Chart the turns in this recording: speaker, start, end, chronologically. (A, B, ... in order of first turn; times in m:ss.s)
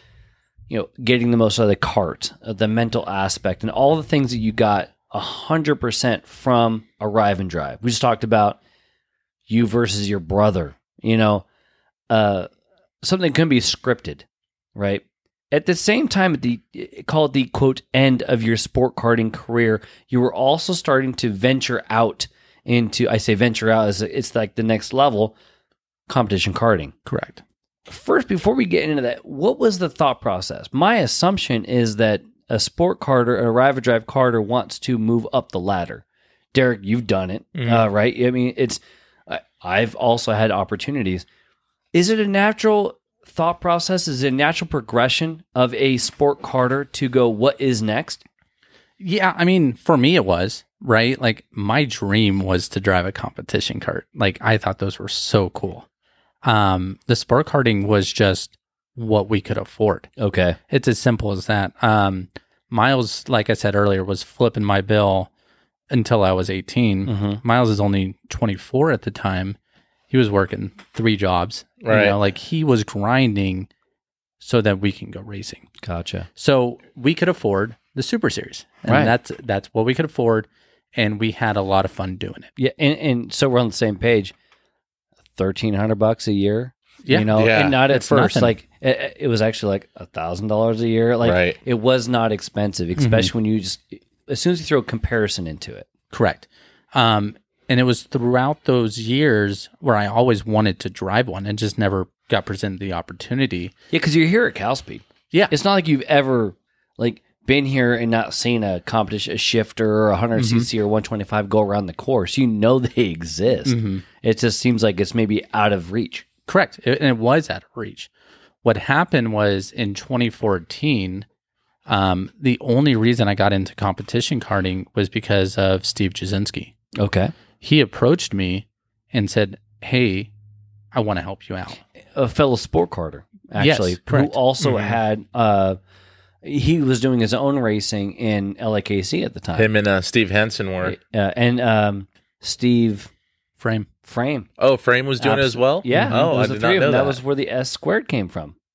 0:00.7-0:08.6 A
0:09.5-0:11.4 A
0:12.1-0:12.5 A
0:13.0-0:14.2 A
0:14.8-0:25.3 A
0:26.1-0:26.9 A
0:27.0-0:27.4 B
0:27.9-0:41.2 A
0:37.6-0:37.9 C
0:41.9-0:48.2 A
0:49.0-0:55.8 B
0:56.4-1:00.1 B
1:00.2-1:00.6 A
1:00.7-1:05.3 B
1:05.9-1:09.6 B
1:07.0-1:07.4 A
1:10.1-1:13.7 B
1:11.8-1:12.2 C
1:14.4-1:15.6 B
1:15.8-1:16.3 A
1:16.4-1:22.5 B
1:18.9-1:19.1 A
1:22.6-1:24.3 A
1:25.4-1:35.9 A
1:27.0-1:28.6 B
1:27.3-1:27.8 C
1:31.2-1:31.6 C
1:33.0-1:33.3 B
1:36.1-1:43.7 B
1:43.9-1:56.2 A
1:50.4-1:50.7 B
1:53.6-1:54.0 B
1:56.5-1:58.1 B
1:58.6-2:01.2 B
2:01.9-2:06.7 B
2:07.0-2:07.3 A
2:07.6-2:10.3 B
2:10.9-2:11.8 B
2:12.1-2:15.8 A
2:13.6-2:14.4 B
2:14.6-2:15.0 C
2:16.4-2:19.7 A
2:19.5-2:21.0 C
2:20.8-2:23.1 A
2:23.6-2:23.9 B
2:24.0-2:24.5 A
2:24.6-2:27.2 C
2:25.2-2:28.5 A
2:25.9-2:26.2 B